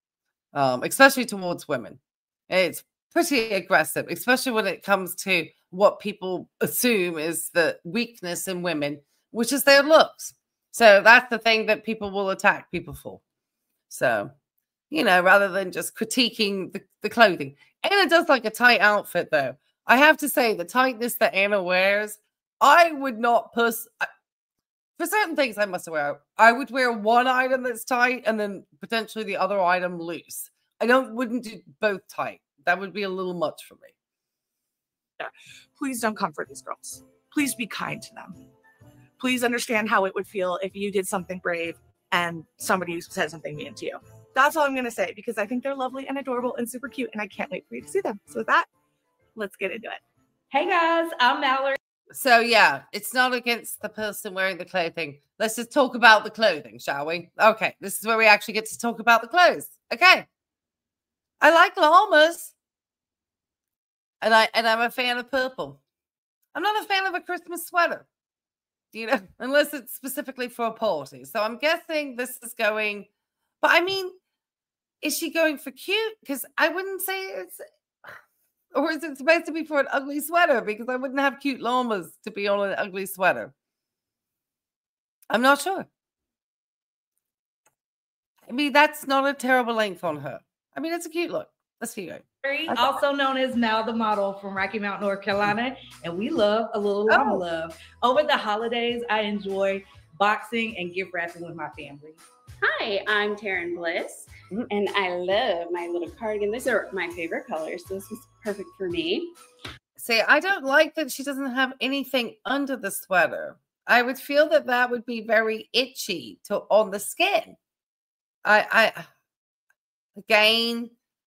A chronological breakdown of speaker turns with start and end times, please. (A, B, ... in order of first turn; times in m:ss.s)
0:00.5-0:13.2 A
0:13.9-0:14.3 A
0:14.9-0:24.1 A
0:25.0-0:33.9 A
0:35.2-0:38.4 B
0:39.2-0:48.7 B
0:49.4-0:50.0 B
0:50.5-0:51.8 C
0:52.1-1:00.3 A
1:01.4-1:02.5 A
1:04.2-1:05.8 A
1:06.5-1:08.1 A
1:08.9-1:13.1 A
1:13.6-1:14.2 A
1:15.0-1:18.1 A
1:18.7-1:23.5 A
1:25.3-1:25.9 A
1:28.5-1:33.0 A
1:32.4-1:42.2 C
1:37.1-1:37.4 A
1:42.6-1:49.3 D
1:50.0-1:57.6 A
1:58.4-1:59.1 A
2:00.2-2:00.9 A